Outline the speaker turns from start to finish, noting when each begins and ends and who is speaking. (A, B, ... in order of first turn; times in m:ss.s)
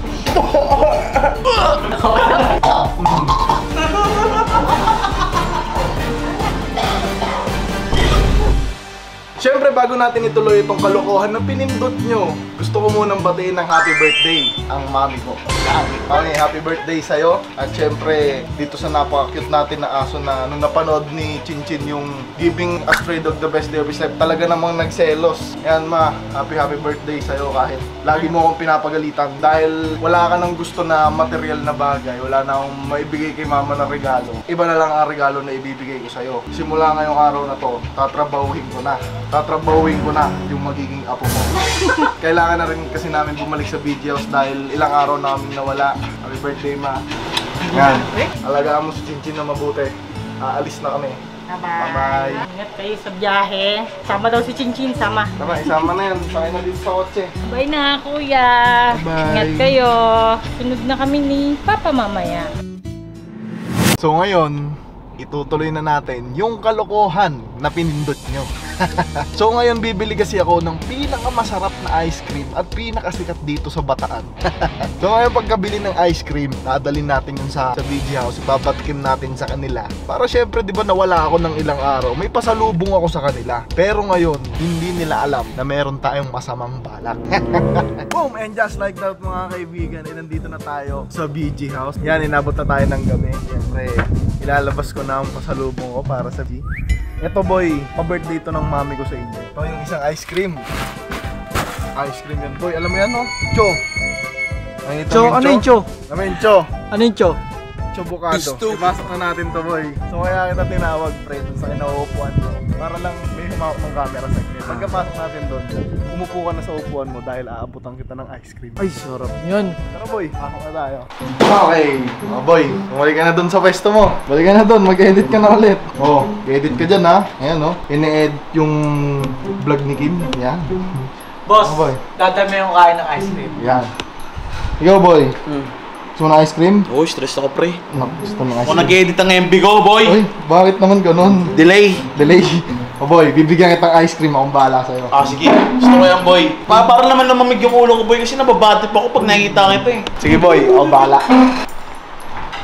0:00.4-0:01.2 A
0:02.2-0:02.4 A
0:04.0-0:04.7 A
0:09.4-0:41.5 A
0:42.0-0:47.0 A
0:47.7-0:51.2 A
0:51.5-0:55.3 B
0:51.8-0:52.4 A
0:55.4-0:57.3 A
0:57.5-1:02.5 B
0:58.9-0:59.8 A
1:04.0-1:36.6 A
1:37.2-1:40.7 A
1:42.0-1:43.8 A
1:44.8-1:46.7 A
1:45.1-1:45.9 C
1:46.9-1:47.4 C
1:47.9-1:59.0 A
1:58.8-1:59.8 C
1:59.9-2:10.7 A
2:11.5-2:13.5 C
2:11.6-2:12.0 A
2:13.6-2:13.9 A
2:14.8-2:15.3 A
2:16.2-2:16.9 A
2:16.9-2:17.8 D
2:17.9-2:19.0 A
2:18.6-2:20.2 D
2:20.0-2:21.5 A
2:21.6-2:22.0 D
2:22.1-2:25.1 A
2:25.1-2:30.1 D
2:30.2-2:31.3 A